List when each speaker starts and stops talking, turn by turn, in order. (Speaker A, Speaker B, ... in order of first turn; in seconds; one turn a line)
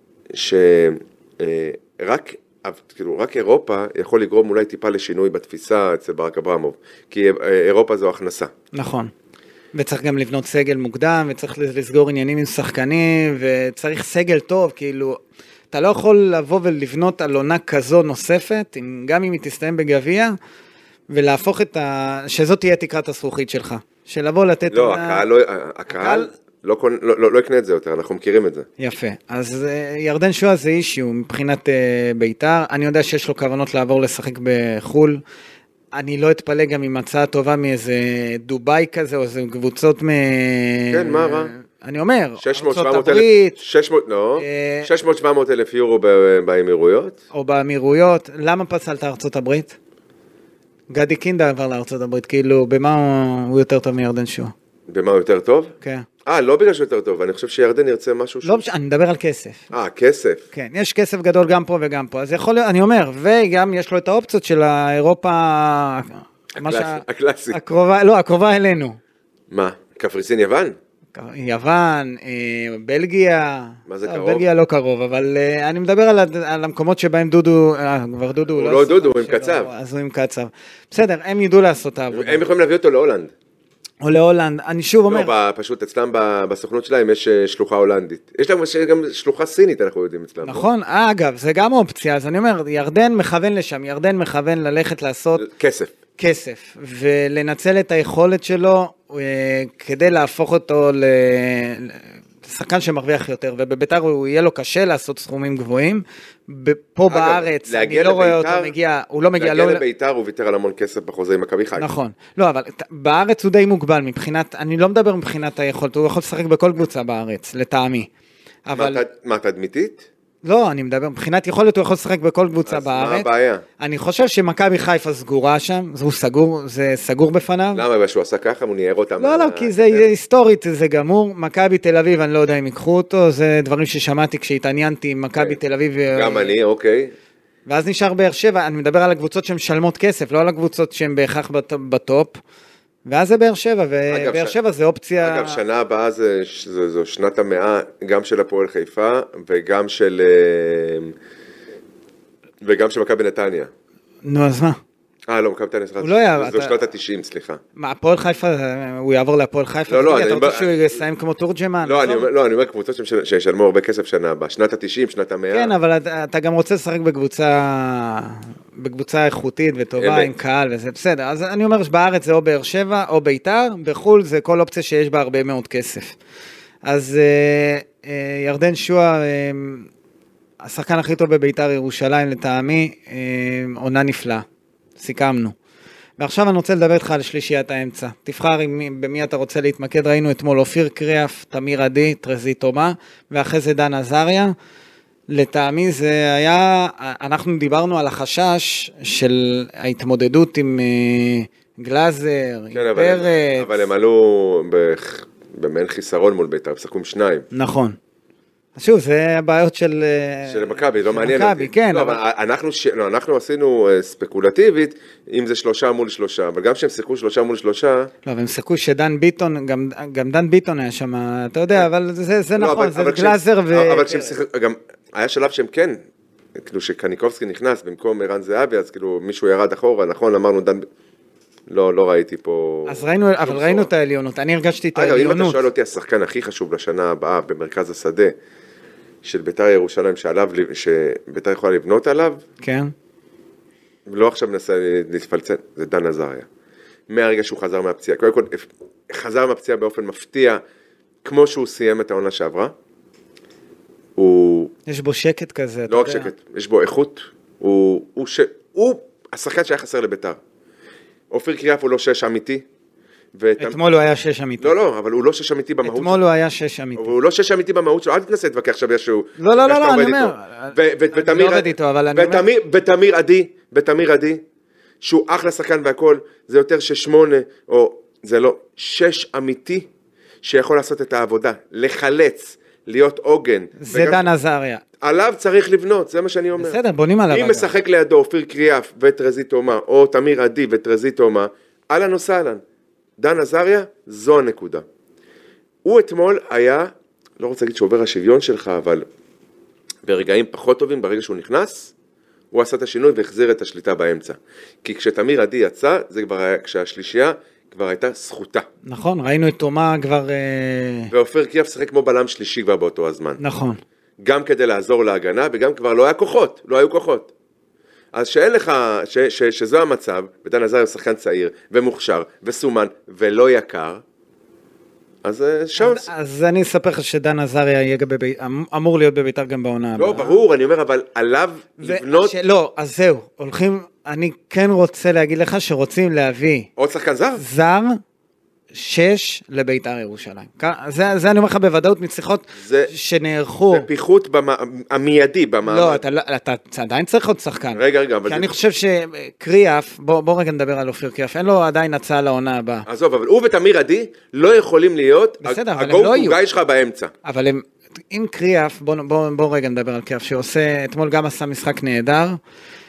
Speaker A: 0.3-8.5
Speaker B: 8.7-9.1
Speaker B: 9.7-15.2
Speaker B: 15.7-20.4
Speaker B: 21.1-25.2
Speaker A: 24.7-28.7
Speaker B: 25.9-26.3
Speaker B: 28.8-35.2
Speaker B: 35.9-43.6
Speaker A: 40.9-41.5
Speaker A: 42.4-47.2
Speaker B: 44.4-44.9
Speaker B: 47.3-49.8
Speaker B: 50.9-54.5
Speaker A: 54.9-55.7
Speaker B: 55.8-56.1
Speaker A: 56.2-58.6
Speaker B: 58.4-59.7
Speaker A: 59.7-60.5
Speaker B: 60.5-69.0
Speaker A: 66.5-67.6
Speaker A: 69.5-70.8
Speaker B: 71.2-82.4
Speaker A: 73.9-74.4
Speaker A: 78.5-79.7
Speaker A: 82.1-83.3
Speaker B: 84.0-85.3
Speaker A: 85.1-90.7
Speaker B: 90.4-95.5
Speaker A: 95.4-95.9
Speaker B: 96.2-109.8
Speaker A: 107.1-108.7
Speaker A: 109.4-111.9
Speaker B: 111.8-118.1
Speaker B: 118.7-119.0
Speaker A: 118.8-120.1
Speaker B: 120.5-123.3
Speaker A: 122.7-123.6
Speaker B: 123.8-127.8
Speaker A: 127.7-130.1
Speaker B: 129.2-136.6
Speaker A: 136.1-137.1
Speaker B: 137.7-142.4
Speaker B: 143.1-145.6
Speaker A: 144.1-144.6
Speaker A: 145.2-151.1
Speaker A: 152.6-153.7
Speaker B: 154.2-154.8
Speaker A: 155.3-157.6
Speaker B: 156.0-156.8
Speaker B: 157.8-162.3
Speaker A: 159.9-160.7
Speaker A: 161.8-165.7
Speaker B: 165.5-176.2
Speaker A: 170.0-170.3
Speaker B: 176.8-179.9
Speaker B: 180.6-184.4
Speaker B: 185.0-185.6
Speaker B: 186.2-194.5
Speaker B: 195.3-203.8
Speaker A: 202.7-207.5
Speaker B: 207.5-208.0
Speaker B: 208.8-212.2
Speaker A: 210.5-218.1
Speaker B: 218.2-224.3
Speaker A: 222.6-226.0
Speaker A: 226.6-230.9
Speaker A: 231.7-233.9
Speaker B: 232.9-235.6
Speaker A: 234.9-238.3
Speaker A: 239.2-242.4
Speaker B: 242.6-242.9
Speaker A: 244.1-246.5
Speaker A: 247.1-250.6
Speaker A: 251.2-252.7
Speaker A: 254.2-254.7
Speaker B: 254.9-256.3
Speaker A: 255.9-260.4
Speaker A: 261.3-262.6
Speaker A: 263.4-263.8
Speaker B: 263.6-264.8
Speaker A: 264.6-266.2
Speaker B: 265.8-267.1
Speaker A: 267.0-274.4
Speaker B: 269.4-272.4
Speaker A: 275.0-279.9
Speaker A: 280.4-284.3
Speaker B: 283.8-284.8
Speaker A: 285.0-286.8
Speaker B: 286.6-287.7
Speaker A: 287.3-292.6
Speaker A: 293.2-294.8
Speaker A: 295.8-299.1
Speaker A: 300.0-301.9
Speaker A: 302.5-308.7
Speaker B: 308.9-311.1
Speaker A: 311.1-313.4
Speaker B: 313.4-313.8
Speaker A: 314.2-317.3
Speaker A: 318.1-324.0
Speaker A: 325.2-326.1
Speaker B: 325.8-330.4
Speaker A: 330.0-332.4
Speaker B: 331.8-336.7
Speaker A: 336.8-337.4
Speaker B: 337.4-338.0
Speaker B: 338.7-343.9
Speaker A: 342.6-342.9
Speaker A: 343.7-346.0
Speaker B: 345.7-352.9
Speaker A: 347.8-348.5
Speaker A: 352.9-357.1
Speaker B: 355.4-356.4
Speaker B: 357.2-362.4